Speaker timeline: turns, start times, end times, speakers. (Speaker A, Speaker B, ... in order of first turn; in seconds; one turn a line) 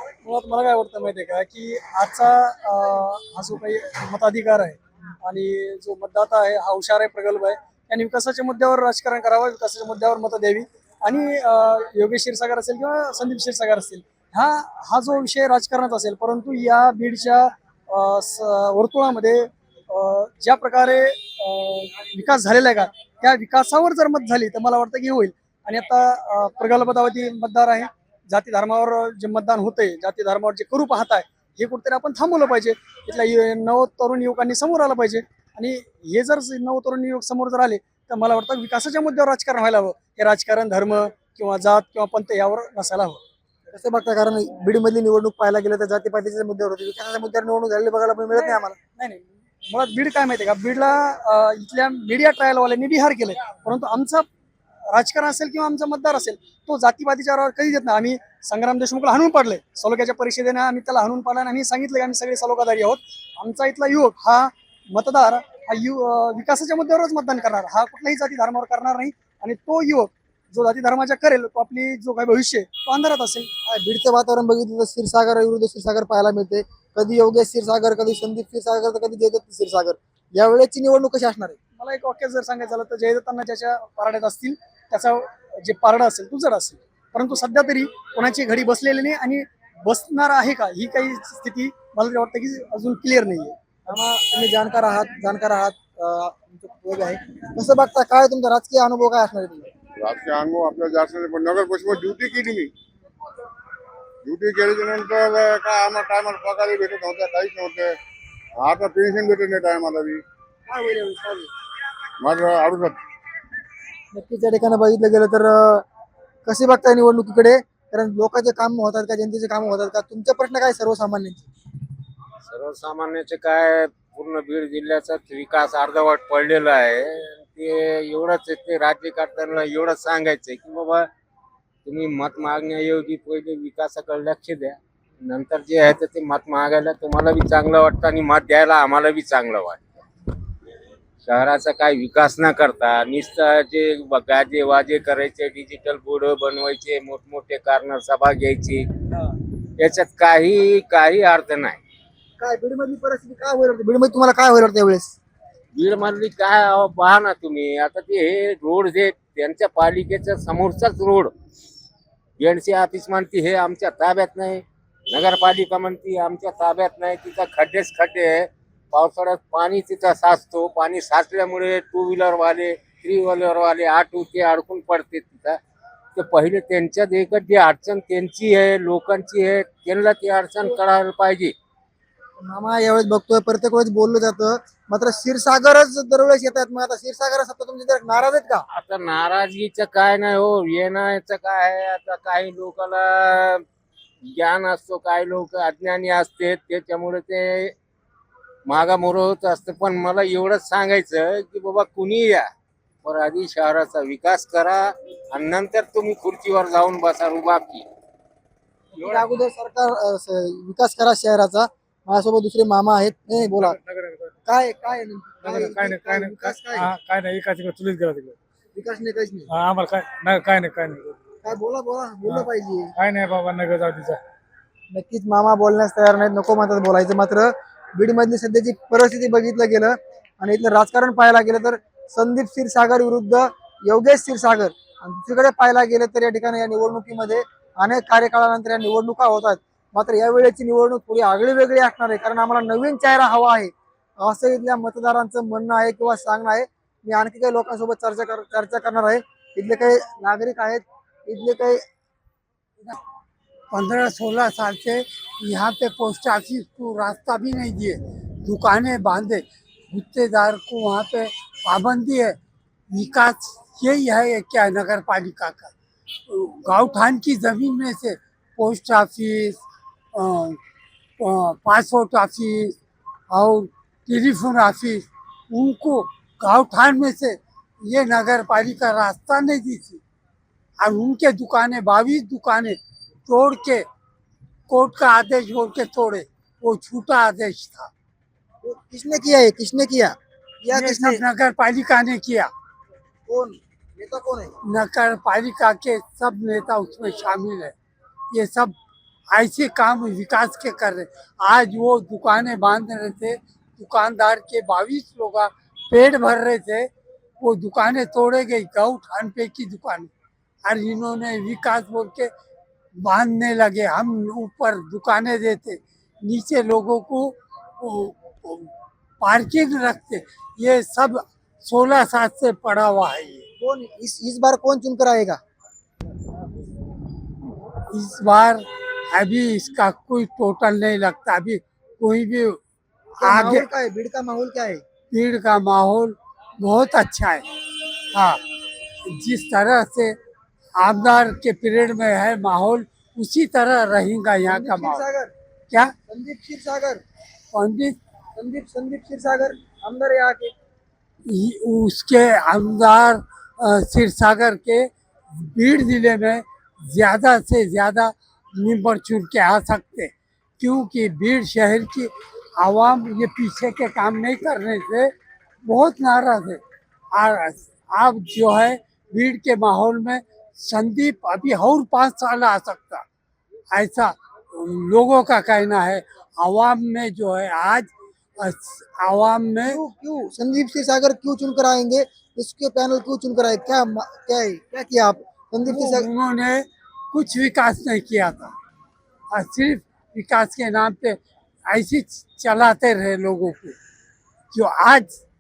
Speaker A: 0.2-43.2
Speaker B: 43.7-48.8
Speaker A: 48.3-54.3
Speaker A: 54.9-73.5
Speaker B: 73.7-81.6
Speaker A: 81.8-93.6
Speaker B: 93.9-99.7
Speaker C: 100.0-102.7
Speaker C: 104.2-108.0
Speaker C: 108.6-110.2
Speaker B: 110.7-111.5
Speaker C: 112.2-113.0
Speaker B: 114.1-115.8
Speaker B: 116.5-121.5
Speaker D: 122.4-131.1
Speaker D: 131.8-139.8
Speaker D: 141.2-148.9
Speaker D: 149.8-151.8
Speaker B: 152.4-155.2
Speaker D: 155.8-161.3
Speaker D: 162.4-175.6
Speaker D: 176.2-181.6
Speaker B: 182.4-188.7
Speaker D: 188.7-193.6
Speaker D: 194.3-197.7
Speaker D: 198.7-202.5
Speaker D: 203.0-207.8
Speaker B: 208.9-213.8
Speaker E: 209.0-209.3
Speaker E: 213.4-214.3
Speaker B: 214.5-216.9
Speaker E: 215.4-218.4
Speaker B: 218.7-219.5
Speaker E: 219.5-221.2
Speaker B: 221.4-222.9
Speaker E: 222.2-224.2
Speaker B: 224.9-251.8
Speaker F: 253.7-262.4
Speaker F: 262.9-265.7
Speaker F: 266.3-269.6
Speaker F: 270.1-270.6
Speaker F: 271.2-272.8
Speaker F: 273.3-280.0
Speaker F: 280.8-283.9
Speaker F: 284.7-287.9
Speaker B: 288.6-291.2
Speaker F: 290.7-292.5
Speaker B: 293.3-294.5
Speaker F: 294.6-297.8
Speaker F: 298.3-298.8
Speaker F: 299.3-306.9
Speaker F: 307.4-310.1
Speaker F: 310.7-312.3
Speaker F: 313.0-323.4
Speaker B: 323.6-325.4
Speaker F: 327.9-332.6
Speaker B: 333.2-334.8
Speaker F: 333.2-333.7
Speaker F: 335.1-337.4
Speaker F: 338.1-338.4
Speaker F: 339.1-340.1
Speaker F: 340.8-345.1
Speaker B: 344.5-345.3
Speaker B: 346.1-347.0
Speaker F: 347.5-348.0
Speaker B: 348.4-350.5
Speaker F: 351.3-365.1
Speaker F: 365.6-366.6
Speaker F: 367.1-373.1
Speaker F: 373.7-379.8
Speaker B: 379.6-386.1
Speaker F: 385.7-388.5
Speaker F: 389.4-391.2
Speaker F: 391.7-393.8
Speaker F: 394.5-395.2